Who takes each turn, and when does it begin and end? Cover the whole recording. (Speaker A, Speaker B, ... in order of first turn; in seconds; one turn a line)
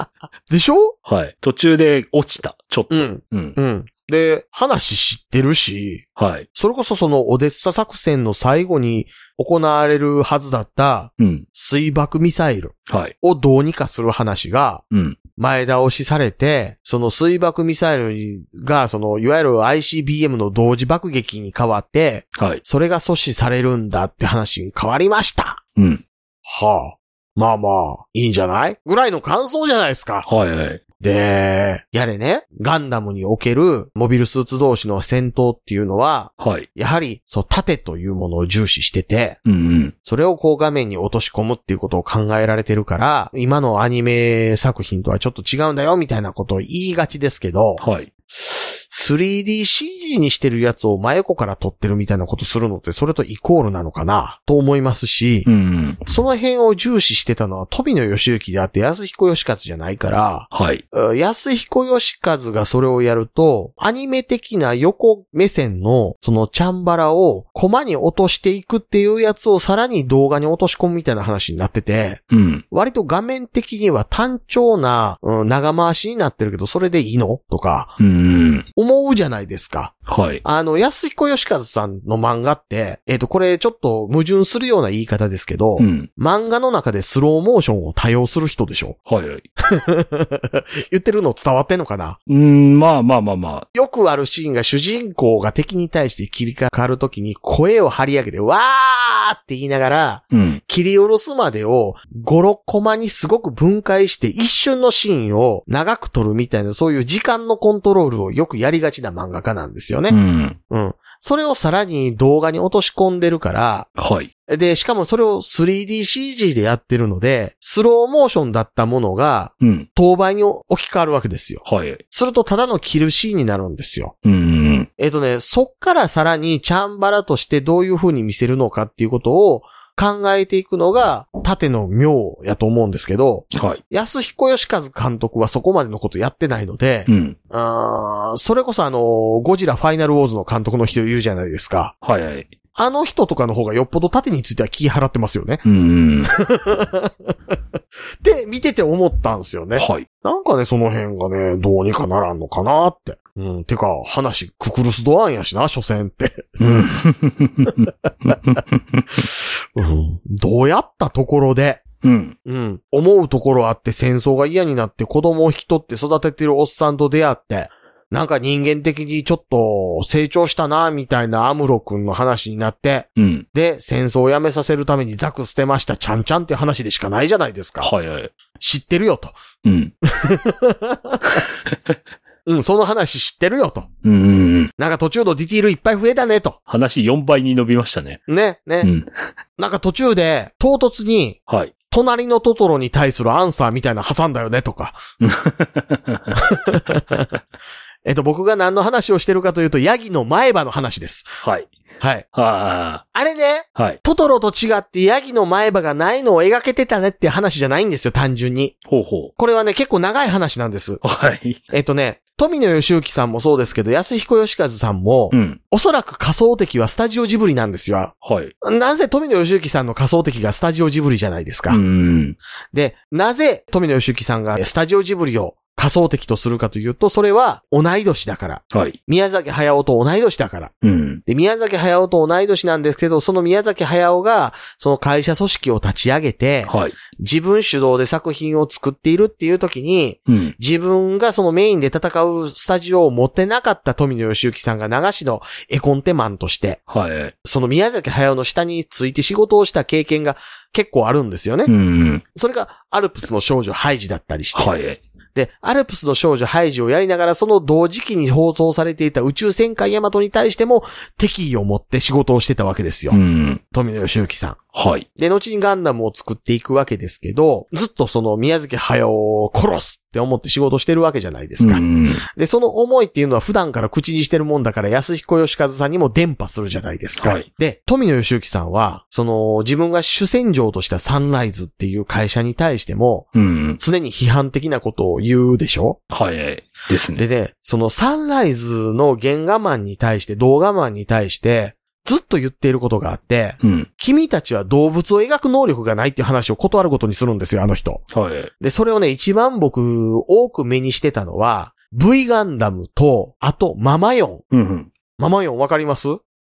Speaker A: 0.5-0.9
Speaker B: 1.1-3.6
Speaker A: 2.9-6.0
Speaker B: 6.2-6.5
Speaker A: 6.5-14.8
Speaker B: 11.2-11.4
Speaker B: 12.9-13.1
Speaker B: 14.9-15.2
Speaker A: 15.4-25.6
Speaker B: 22.4-22.6
Speaker B: 25.8-26.0
Speaker A: 26.4-30.3
Speaker B: 30.2-30.8
Speaker A: 31.0-39.4
Speaker B: 36.4-36.7
Speaker B: 39.5-39.9
Speaker A: 40.0-47.8
Speaker B: 47.8-48.1
Speaker A: 48.3-55.5
Speaker B: 55.5-56.1
Speaker A: 56.1-78.0
Speaker B: 60.5-60.8
Speaker B: 72.3-72.6
Speaker B: 78.0-78.7
Speaker A: 78.8-79.9
Speaker B: 80.1-80.4
Speaker A: 80.4-89.0
Speaker B: 85.8-86.1
Speaker B: 89.1-89.4
Speaker A: 89.7-92.2
Speaker B: 92.3-93.7
Speaker A: 93.7-110.2
Speaker B: 100.3-100.6
Speaker B: 110.1-110.6
Speaker A: 110.7-113.9
Speaker B: 114.0-114.3
Speaker A: 114.5-124.1
Speaker B: 119.6-119.9
Speaker B: 121.6-122.0
Speaker B: 124.2-124.9
Speaker A: 125.0-141.9
Speaker B: 133.5-133.8
Speaker B: 137.1-137.4
Speaker B: 142.0-142.5
Speaker A: 142.7-145.6
Speaker B: 145.6-146.3
Speaker A: 146.2-147.3
Speaker A: 148.2-156.8
Speaker B: 149.8-150.1
Speaker B: 156.6-159.2
Speaker A: 159.2-161.8
Speaker B: 162.0-162.3
Speaker A: 162.4-177.9
Speaker B: 173.2-173.4
Speaker B: 177.8-178.3
Speaker A: 178.6-179.3
Speaker B: 179.6-179.9
Speaker A: 180.1-181.2
Speaker B: 181.7-182.0
Speaker A: 182.4-183.9
Speaker B: 184.0-184.7
Speaker A: 184.8-186.6
Speaker B: 186.7-188.2
Speaker A: 188.3-188.9
Speaker B: 188.8-189.1
Speaker A: 189.6-191.4
Speaker B: 191.5-191.7
Speaker A: 191.9-195.0
Speaker B: 195.2-196.4
Speaker A: 196.3-197.3
Speaker A: 198.1-201.4
Speaker B: 201.4-201.7
Speaker A: 202.0-202.2
Speaker B: 202.3-203.0
Speaker A: 203.1-208.7
Speaker B: 208.9-209.3
Speaker A: 209.3-211.0
Speaker B: 211.0-211.6
Speaker A: 211.7-221.8
Speaker B: 215.3-215.6
Speaker B: 218.2-218.5
Speaker B: 221.7-222.4
Speaker A: 222.7-230.7
Speaker B: 228.7-229.0
Speaker B: 230.8-231.2
Speaker A: 231.3-246.8
Speaker B: 236.7-237.0
Speaker B: 240.3-240.6
Speaker B: 246.9-247.3
Speaker A: 247.4-251.7
Speaker B: 251.7-252.2
Speaker A: 252.3-254.7
Speaker B: 254.5-255.0
Speaker A: 255.3-263.2
Speaker B: 263.1-263.6
Speaker A: 263.7-264.6
Speaker B: 264.7-265.1
Speaker A: 265.2-283.3
Speaker B: 271.6-272.2
Speaker B: 277.2-277.4
Speaker B: 283.3-283.8
Speaker A: 283.8-286.0
Speaker B: 286.1-287.2
Speaker A: 287.2-298.0
Speaker B: 293.6-293.9
Speaker B: 298.1-298.5
Speaker A: 298.6-304.4
Speaker B: 304.5-304.9
Speaker A: 305.2-306.2